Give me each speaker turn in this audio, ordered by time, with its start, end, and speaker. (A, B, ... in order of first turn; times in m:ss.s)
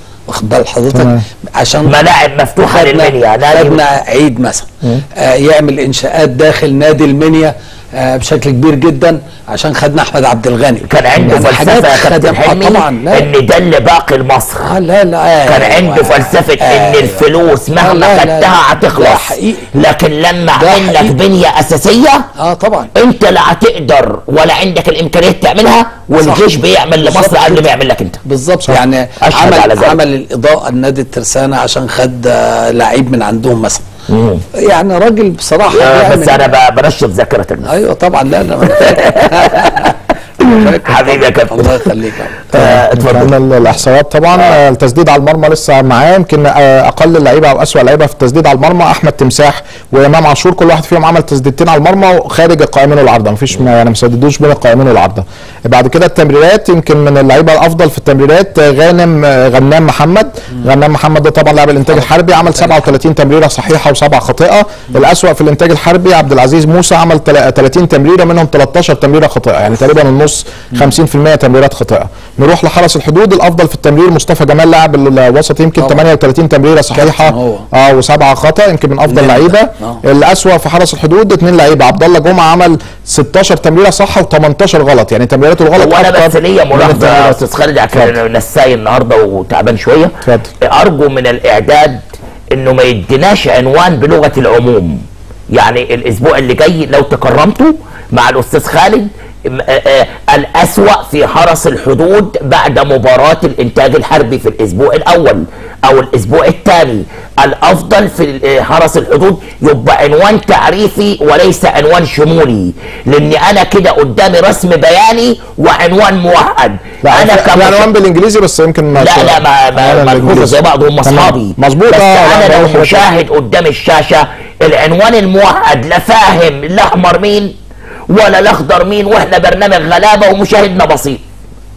0:00.3-0:02.0 A
0:00.9-0:01.2 B
0:01.8-0:03.8 C
0:02.6-0:13.3 A
0:10.8-0:14.7 C
0:14.6-0:17.2 A
0:15.5-0:22.2 C
0:17.8-0:19.7 A
0:20.6-0:21.2 A
0:22.4-0:22.9 A
0:22.9-0:28.2 C
0:26.2-0:27.7 A
0:28.2-0:33.8 A
0:29.2-0:30.0 C
0:34.1-0:34.4 C
0:34.6-0:36.5 A
0:35.7-0:37.7 C
0:37.7-0:42.4 A
0:38.8-0:39.9 C
0:40.5-0:41.8 C
0:42.5-0:43.3 C
0:42.5-1:28.2 B
1:15.8-1:16.1 A
1:16.9-1:17.6 A
1:19.1-1:20.0 A
1:25.8-1:57.9 C
1:30.2-1:30.5 B
1:57.0-2:03.0 B
1:58.9-2:07.5 C
2:08.1-2:11.2 C